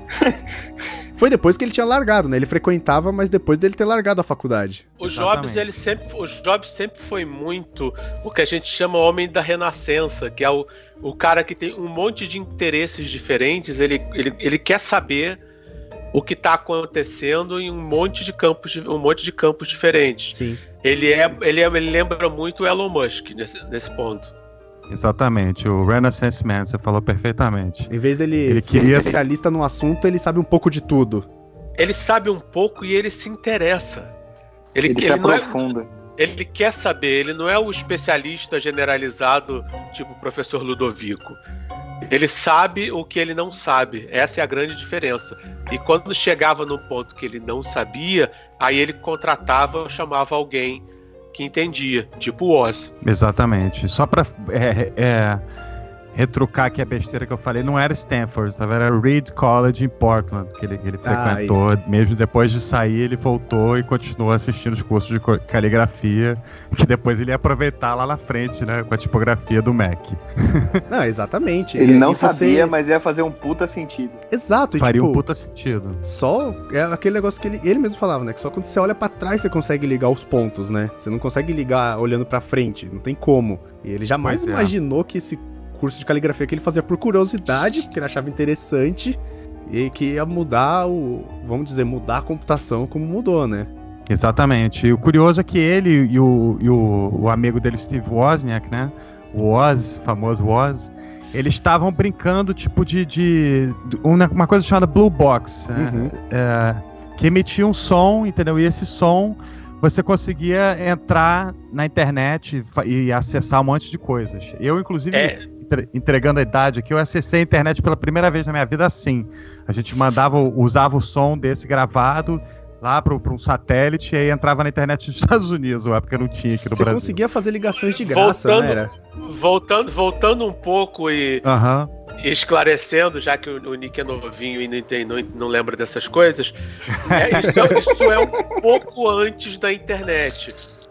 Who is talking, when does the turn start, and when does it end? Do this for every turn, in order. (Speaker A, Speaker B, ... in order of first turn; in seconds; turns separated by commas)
Speaker A: 1.1-4.9, Speaker B: 5.0-15.4, Speaker C: 5.1-5.6, Speaker B: 16.1-24.3, Speaker A: 20.3-20.6, Speaker C: 24.9-27.9, Speaker A: 27.9-31.3, Speaker C: 28.5-29.2, Speaker B: 31.8-34.1, Speaker B: 34.8-35.6, Speaker D: 34.8-35.9, Speaker B: 36.2-41.4, Speaker B: 42.1-52.9, Speaker C: 53.0-55.4, Speaker C: 56.1-70.8, Speaker A: 61.0-61.6, Speaker A: 70.9-72.7, Speaker D: 71.8-74.2, Speaker A: 74.3-75.2, Speaker C: 74.8-76.0, Speaker A: 76.0-93.7, Speaker C: 84.2-84.7, Speaker C: 94.1-127.2, Speaker A: 105.7-106.1, Speaker B: 115.1-115.4, Speaker A: 126.7-128.9, Speaker B: 127.9-131.5, Speaker C: 131.4-131.9, Speaker B: 132.2-136.5, Speaker C: 136.9-137.9, Speaker B: 137.1-140.6, Speaker A: 137.4-137.8